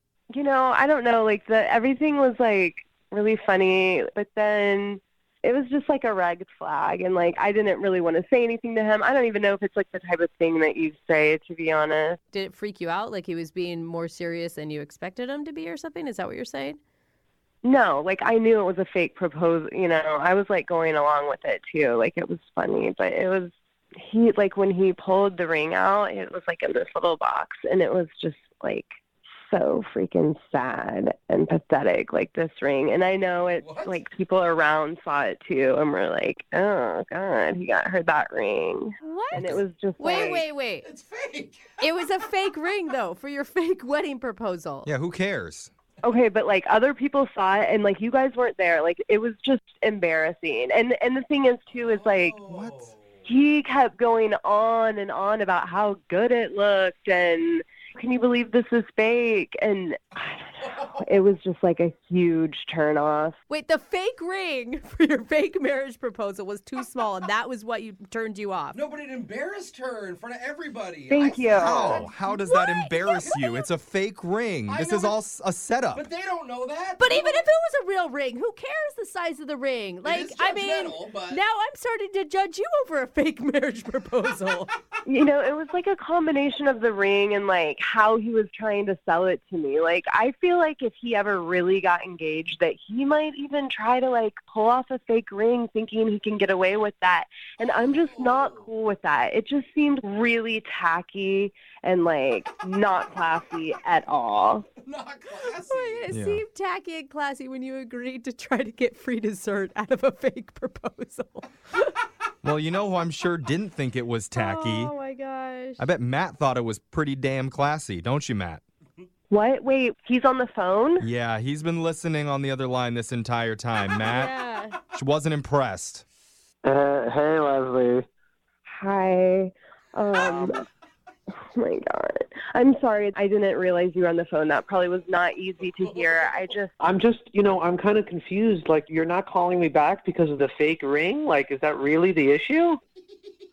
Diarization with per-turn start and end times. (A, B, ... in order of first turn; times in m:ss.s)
0:00.3-0:12.2 A
0:12.3-0:16.8 B
0:17.6-0:29.0 A
0:29.5-0:40.4 A
0:33.6-0:34.0 C
0:39.0-0:39.5 B
0:40.0-0:40.9 B
0:40.8-0:41.8 C
0:41.8-0:44.9 B
0:44.8-0:45.7 D
0:46.0-0:52.4 A
0:51.7-0:53.1 C
0:52.5-0:52.9 D
0:53.2-1:03.4 A
1:00.6-1:01.0 C
1:03.5-1:08.8 B
1:08.7-1:12.1 C
1:11.1-1:12.0 A
1:11.6-1:16.0 D
1:12.2-1:13.4 B
1:13.2-1:13.6 C
1:14.7-1:15.2 C
1:15.9-1:17.4 C
1:17.0-1:24.7 B
1:20.0-1:21.4 C
1:25.0-1:44.6 A
1:37.6-1:38.6 C
1:44.8-1:46.1 C
1:45.7-1:51.9 B
1:46.1-1:46.4 D
1:52.4-1:54.9 D
1:54.3-1:55.9 B
1:55.8-1:58.6 D
1:59.3-2:01.1 A
2:01.0-2:04.3 D
2:04.0-2:04.8 B
2:04.9-2:06.0 D
2:06.6-2:08.0 E
2:08.6-2:10.6 A
2:11.6-2:16.7 A
2:15.8-2:16.4 C
2:16.8-2:22.8 E